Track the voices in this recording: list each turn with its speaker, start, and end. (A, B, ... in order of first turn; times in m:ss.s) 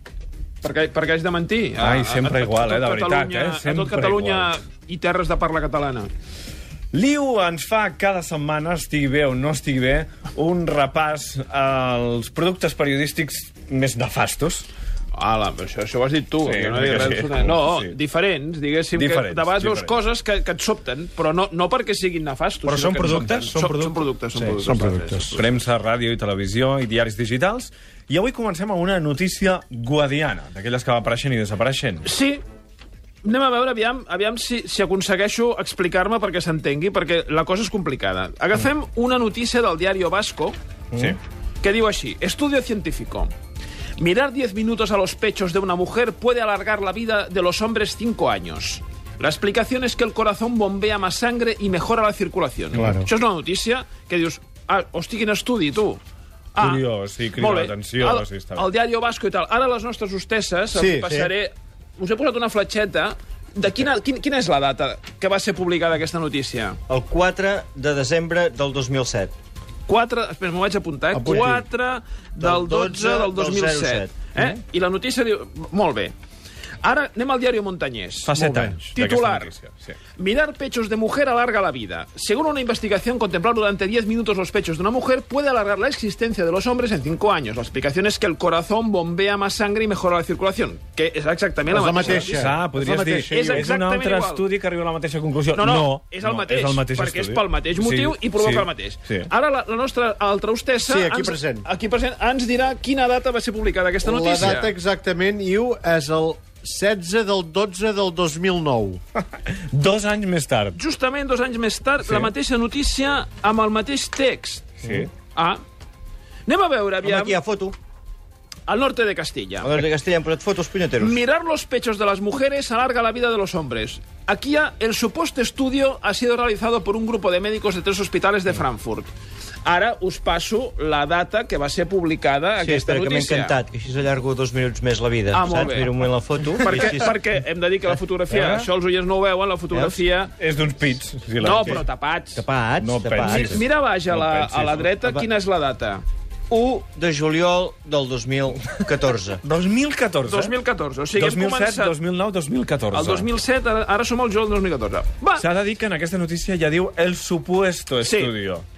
0:00.6-0:06.1 A
0:01.8-0:04.5 B
0:06.9-0:14.7 B
0:15.1-0:25.4 A
0:16.4-0:18.0 B
0:18.9-0:19.9 B
0:22.6-0:24.0 B
0:24.6-0:25.2 C
0:25.2-0:32.0 B
0:32.0-0:32.4 A
0:33.2-0:40.5 A
0:41.6-0:43.3 A
0:44.0-0:56.0 A
0:52.7-0:53.1 C
0:56.5-0:56.8 A
0:56.6-0:58.6 B
0:57.4-1:06.8 A
1:00.7-1:01.2 C
1:06.9-1:09.3 D
1:09.9-1:16.1 A
1:11.1-1:11.6 C
1:12.4-1:14.1 D
1:16.8-1:18.3 A
1:18.2-1:19.9 B
1:18.3-1:18.8 C
1:18.9-1:19.5 A
1:20.2-1:32.6 A
1:31.7-1:33.7 C
1:32.0-1:39.3 B
1:33.3-1:34.4 A
1:35.5-1:44.7 A
1:40.8-1:41.6 C
1:44.0-1:49.0 C
1:49.5-1:50.8 B
1:50.7-1:54.7 A
1:54.8-1:55.1 B
1:55.3-1:55.6 A
1:56.5-1:57.4 A
1:57.0-1:57.7 D
1:58.7-1:59.7 A
1:59.6-2:01.2 D
2:01.0-2:09.1 A
2:09.6-2:13.6 A
2:12.6-2:17.2 D
2:15.3-2:16.1 A
2:16.6-2:20.3 A
2:18.3-2:18.7 B
2:19.7-2:20.0 D
2:20.4-2:21.8 B
2:21.4-2:22.4 A
2:22.3-2:23.6 D
2:22.8-2:24.9 B
2:23.2-2:26.0 A
2:25.0-2:25.2 D
2:26.5-2:29.4 D
2:29.4-2:30.5 B
2:30.2-2:32.0 A
2:31.1-2:33.3 B
2:32.9-2:35.4 A
2:35.4-2:38.6 B
2:38.0-2:38.3 A